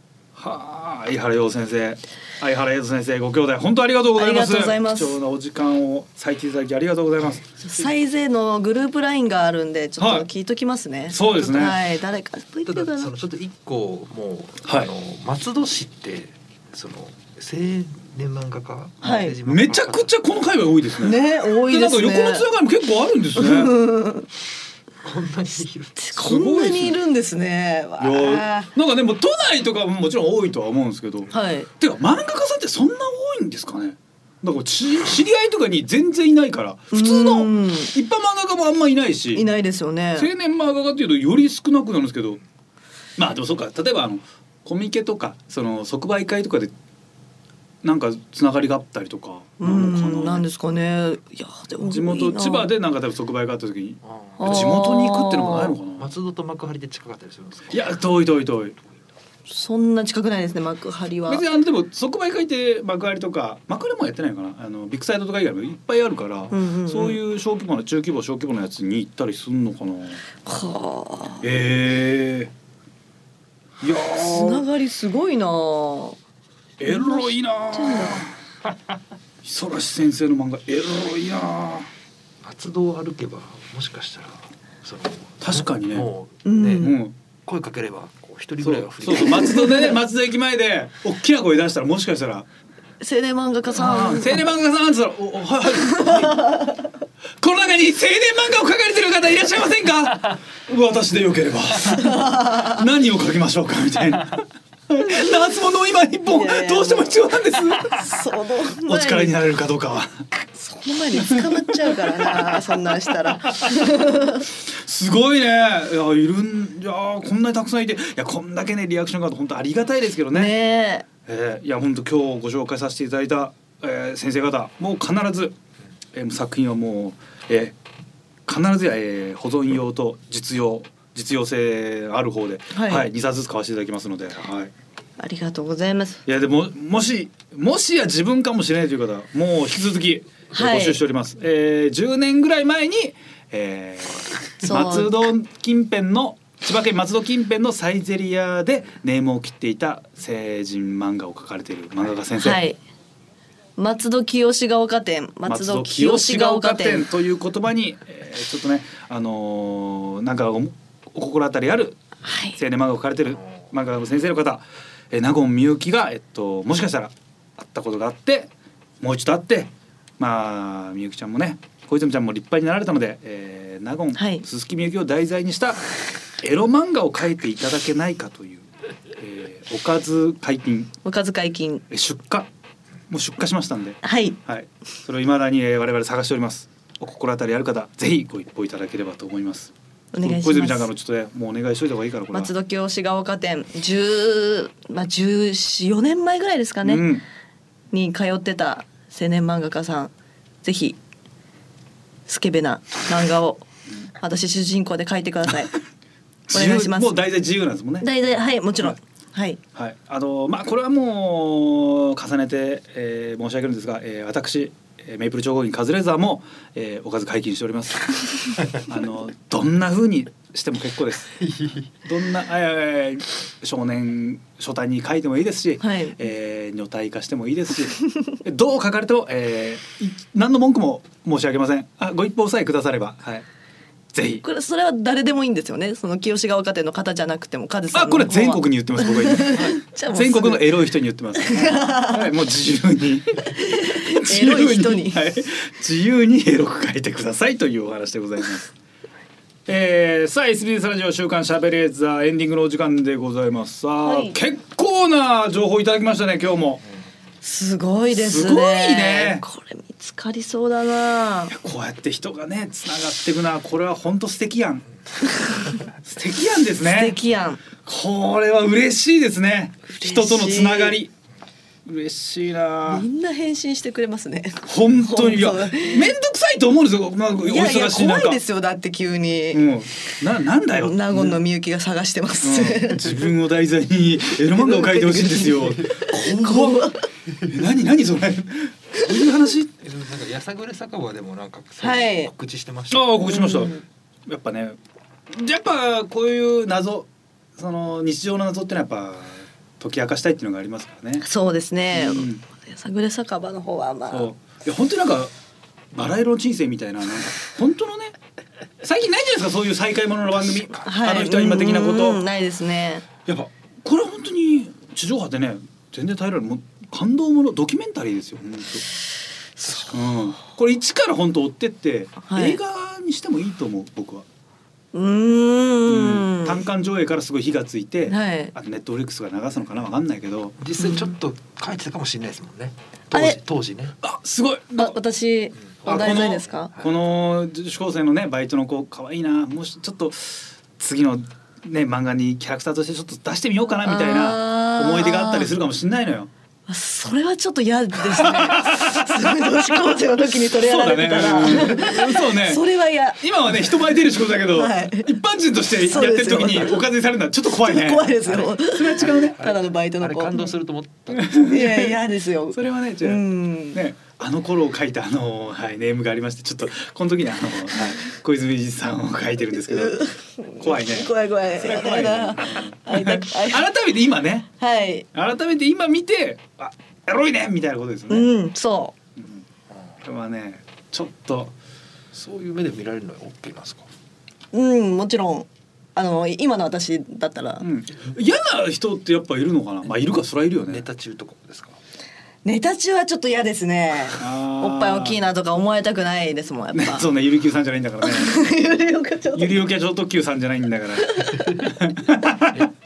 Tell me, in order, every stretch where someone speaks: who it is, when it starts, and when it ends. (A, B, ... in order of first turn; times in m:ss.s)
0:00.4-0:07.9 A
0:04.1-0:05.2 B
0:07.6-0:13.1 B
0:10.0-0:10.3 A
0:11.1-0:11.8 A
0:12.7-0:20.1 C
0:14.6-0:14.9 A
0:19.0-0:19.4 B
0:19.0-0:23.7 A
0:21.0-0:22.4 B
0:23.4-0:24.3 B
0:25.0-0:26.1 C
0:26.0-0:28.7 B
0:26.2-0:27.0 A
0:28.0-0:39.5 A
0:31.3-0:31.7 B
0:36.9-0:37.9 B
0:39.3-0:40.3 B
0:40.2-0:42.4 A
0:43.2-0:46.7 A
0:47.8-0:50.5 A
0:49.6-0:52.7 B
0:51.8-0:56.1 A
0:54.0-0:54.9 C
0:54.4-0:55.8 B
0:56.0-0:57.9 C
0:57.7-0:58.8 A
0:59.5-1:01.4 B
1:01.3-1:10.2 A
1:06.5-1:07.2 B
1:10.4-1:11.5 B
1:11.4-1:12.5 A
1:13.8-1:14.7 A
1:14.2-1:16.2 B
1:16.8-1:18.3 A
1:16.9-1:18.3 B
1:19.4-1:21.9 A
1:22.4-1:29.7 C
1:25.4-1:26.1 A
1:26.4-1:27.0 B
1:26.8-1:27.1 A
1:28.6-1:32.5 A
1:29.1-1:30.0 B
1:33.0-1:34.4 B
1:33.7-1:36.6 A
1:35.7-1:36.9 B
1:37.4-1:48.1 A
1:41.8-1:42.8 B
1:46.3-1:49.4 B
1:48.8-1:50.3 A
1:50.5-1:54.5 B
1:51.2-2:00.5 A
2:00.3-2:01.1 B
2:01.3-2:05.6 A
2:06.1-2:07.8 A
2:08.5-2:14.7 A
2:12.7-2:13.1 B
2:15.2-2:16.2 B
2:16.3-2:32.6 A
2:20.5-2:21.0 B
2:24.6-2:25.3 B
2:32.4-2:32.8 B
2:33.8-2:37.1 B
2:35.5-2:42.0 A
2:42.2-2:42.6 B
2:42.6-2:55.8 A
2:54.2-2:54.4 B
2:56.4-2:58.7 A
2:59.2-3:00.9 A
3:01.0-3:01.8 B
3:01.9-3:02.5 A
3:03.1-3:12.5 A
3:04.0-3:04.4 B
3:10.1-3:10.9 B
3:12.3-3:17.1 B
3:16.8-3:17.2 A
3:17.9-3:20.1 B
3:20.6-3:21.0 B
3:22.3-3:23.7 B
3:24.2-3:25.8 B
3:26.5-3:28.1 A
3:26.5-3:27.2 B
3:28.0-3:29.6 B
3:29.8-3:41.5 A
3:41.4-3:41.8 C
3:42.0-3:53.5 A
3:45.8-3:46.2 B
3:54.1-3:54.4 A
3:54.4-4:00.7 B
3:57.9-4:08.7 A
4:01.4-4:02.3 B
4:03.6-4:05.2 B
4:09.7-4:16.8 A
4:14.0-4:14.4 B
4:17.4-4:21.6 B
4:18.1-4:19.4 A
4:21.5-4:24.8 A
4:26.0-4:27.2 A
4:26.8-4:27.6 B
4:27.8-4:31.1 A
4:29.9-4:31.0 B
4:31.9-4:33.1 A
4:32.9-4:36.2 B
4:34.6-4:38.4 A
4:37.4-4:39.7 B
4:39.5-4:41.4 A
4:40.7-4:43.2 B
4:42.4-4:46.9 A
4:44.5-4:47.1 B
4:47.4-4:49.7 A
4:49.8-4:53.2 C
4:51.8-4:52.3 B
4:52.9-4:54.8 A
4:53.2-4:53.8 B
4:55.3-5:01.3 A
5:01.2-5:04.3 B
5:01.9-5:02.4 A
5:04.1-5:05.3 A
5:05.9-5:08.1 A
5:08.8-5:12.2 A
5:10.5-5:10.9 C
5:10.8-5:13.0 B
5:13.3-5:18.8 A
5:19.6-5:19.9 B
5:19.9-5:24.3 A
5:22.2-5:22.6 B
5:24.9-5:26.6 B
5:25.9-5:30.6 A
5:28.1-5:28.5 B
5:30.6-5:34.0 C
5:30.8-5:31.1 B
5:33.1-5:33.4 B
5:34.0-5:35.0 A
5:34.8-5:36.7 B
5:35.8-5:36.9 C
5:35.8-5:46.3 A
5:43.8-5:45.5 B
5:46.7-5:53.2 B
5:48.0-5:52.7 A
5:53.2-5:59.4 A
5:54.5-5:55.1 B
5:55.8-5:56.8 B
5:57.5-6:00.5 B
5:58.3-6:01.4 C
6:01.1-6:02.0 A
6:01.4-6:03.8 B
6:02.5-6:10.1 A
6:09.7-6:13.7 B
6:10.6-6:14.5 A
6:14.6-6:15.1 B
6:15.1-6:18.3 A
6:18.1-6:18.9 B
6:19.2-6:19.4 A
6:20.0-6:21.5 A
6:22.1-6:23.9 C
6:24.5-6:27.6 B
6:27.6-6:30.8 A
6:30.7-6:31.8 C
6:32.4-6:37.1 B
6:34.2-6:35.2 A
6:36.7-6:38.4 A
6:38.0-6:39.6 B
6:39.4-6:42.7 A
6:41.1-6:41.4 B